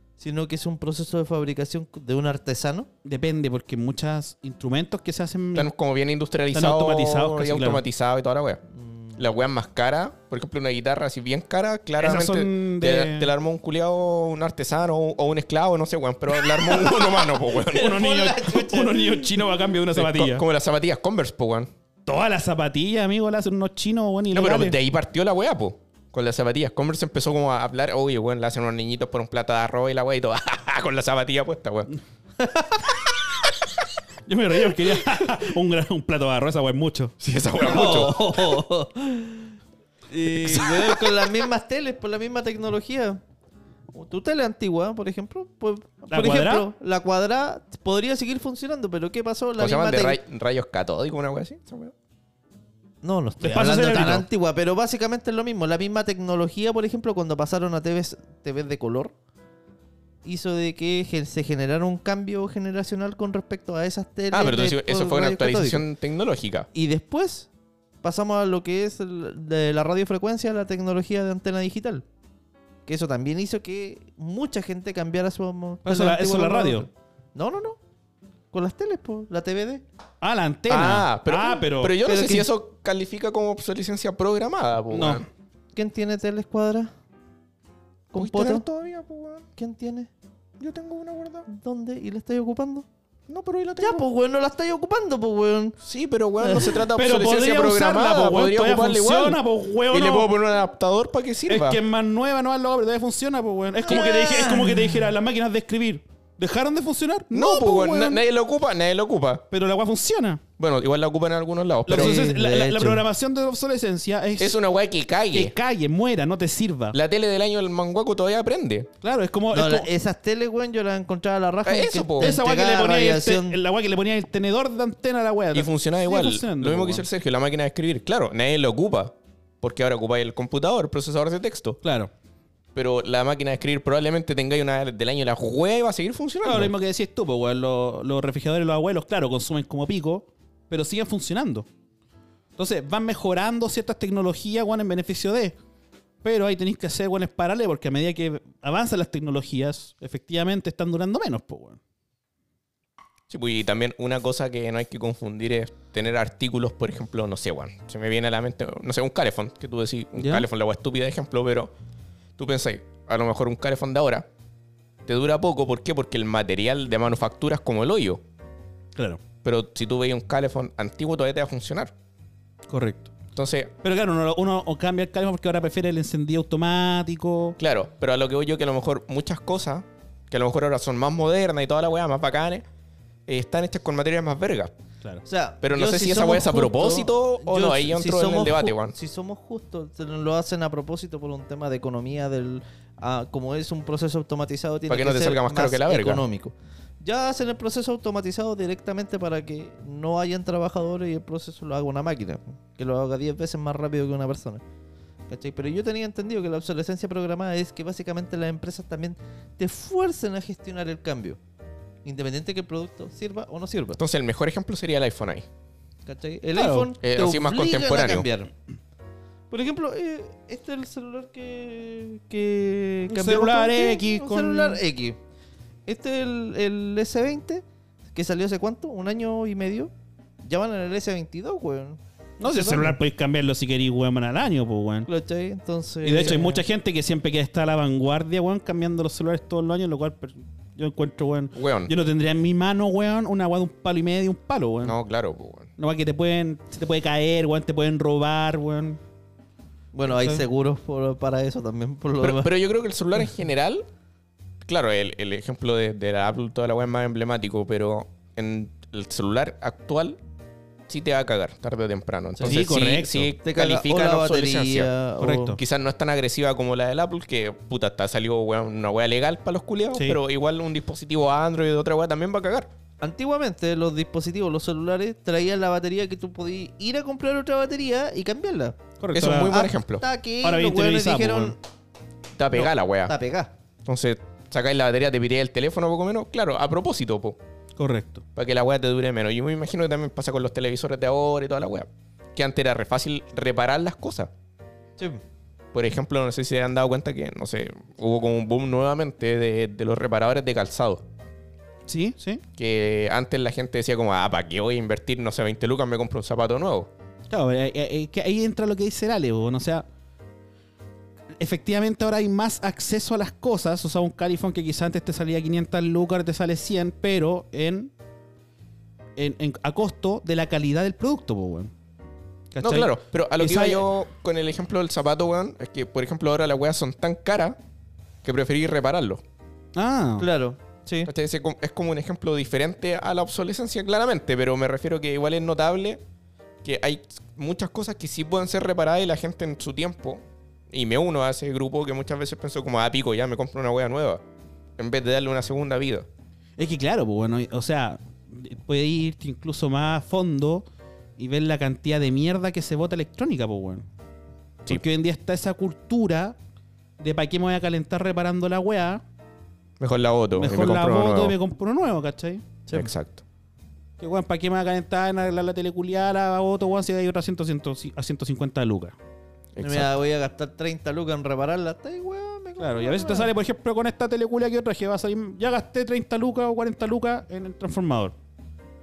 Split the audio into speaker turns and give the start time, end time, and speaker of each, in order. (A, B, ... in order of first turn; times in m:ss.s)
0:00.2-0:02.9 A
0:03.0-0:05.7 B
0:05.6-0:08.6 C
0:06.5-0:07.8 B
0:08.8-0:09.2 A
0:09.2-0:18.0 C
0:12.0-0:13.3 B
0:16.4-0:19.6 A
0:17.7-0:20.4 B
0:19.9-0:21.7 C
0:22.1-0:24.8 B
0:24.3-0:31.9 C
0:32.4-0:32.9 A
0:34.3-0:37.2 B
0:37.2-0:38.5 C
0:37.6-0:39.5 A
0:40.1-0:43.2 A
0:43.9-0:50.2 A
0:46.1-0:46.7 B
0:49.6-0:51.9 C
0:53.0-0:59.1 A
0:53.4-0:54.2 B
1:00.2-1:05.8 A
1:04.3-1:06.7 C
1:06.7-1:07.5 A
1:08.0-1:12.0 A
1:12.9-1:17.8 A
1:15.8-1:16.9 B
1:18.5-1:19.8 A
1:20.2-1:22.0 B
1:20.7-1:25.3 C
1:22.0-1:22.5 A
1:24.9-1:25.3 B
1:25.8-1:26.9 A
1:28.1-1:28.7 A
1:28.2-1:29.5 C
1:29.6-1:30.1 A
1:30.6-1:31.5 C
1:31.5-1:32.9 A
1:33.3-1:34.0 C
1:33.8-1:35.8 A
1:35.8-1:41.8 C
1:36.4-1:36.8 A
1:37.0-1:40.3 B
1:41.5-1:48.2 B
1:43.9-1:45.0 A
1:43.9-1:44.4 C
1:47.3-1:49.4 C
1:49.5-1:50.4 B
1:50.6-1:52.2 C
1:51.9-1:54.6 B
1:51.9-1:53.0 A
1:54.4-1:55.5 C
1:55.3-1:57.0 B
1:56.9-1:58.9 C
1:59.0-1:59.9 B
1:59.5-2:03.6 A
2:01.6-2:02.4 C
2:02.2-2:07.1 B
2:05.5-2:11.8 C
2:11.8-2:12.1 B
2:12.8-2:16.7 C
2:16.4-2:21.7 B
2:22.6-2:25.6 B
2:26.2-2:31.8 B
2:33.3-2:41.7 C
2:40.2-2:40.5 B
2:42.4-2:44.3 C
2:45.1-2:48.2 C
2:49.0-2:49.2 B
2:49.4-2:51.9 C
2:52.7-2:53.1 B
2:53.4-2:53.7 C
2:53.8-2:57.6 B
2:57.6-3:02.6 C
3:03.3-3:04.7 C
3:05.2-3:24.6 A
3:05.6-3:08.9 C
3:14.9-3:16.2 C
3:25.3-3:31.4 A
3:32.0-3:34.0 A
3:34.0-3:35.5 C
3:36.1-3:38.5 A
3:36.6-3:36.9 B
3:37.0-3:38.3 C
3:39.5-3:45.2 A
3:43.1-3:44.8 B
3:45.9-3:49.9 A
3:50.4-3:53.0 A
3:52.4-3:55.1 B
3:55.1-3:56.6 A
3:56.0-4:05.0 B
4:01.6-4:01.9 C
4:04.8-4:05.7 C
4:05.8-4:09.0 B
4:09.9-4:12.5 A
4:10.1-4:10.4 B
4:12.2-4:13.9 C
4:14.7-4:20.2 C
4:20.9-4:24.9 C
4:22.4-4:22.7 A
4:22.4-4:23.3 B
4:23.4-4:25.6 A
4:25.2-4:25.6 B
4:25.5-4:32.7 C
4:29.9-4:30.2 B
4:33.0-4:41.6 A
4:39.0-4:39.7 B
4:39.1-4:40.0 C
4:40.4-4:41.6 B
4:42.4-4:43.1 C
4:42.5-4:43.5 A
4:43.9-4:47.4 C
4:47.8-4:48.2 B
4:48.4-4:54.3 C
4:55.7-5:01.0 C
5:01.9-5:02.4 B
5:02.6-5:06.9 C
5:07.3-5:09.9 B
5:11.4-5:17.9 B
5:19.2-5:21.7 B
5:22.5-5:23.9 B
5:22.6-5:27.6 C
5:28.2-5:29.2 C
5:29.8-5:30.3 B
5:30.2-5:31.1 A
5:31.1-5:36.0 C
5:36.6-5:44.2 C
5:44.8-5:46.1 C
5:46.6-5:50.7 B
5:51.2-5:53.8 B
5:54.7-5:56.4 B
5:57.0-5:59.0 B
5:59.8-6:01.4 C
6:00.4-6:02.6 B
6:02.7-6:03.2 C
6:04.0-6:09.0 B
6:09.6-6:09.9 C
6:09.6-6:13.3 A
6:12.6-6:18.1 B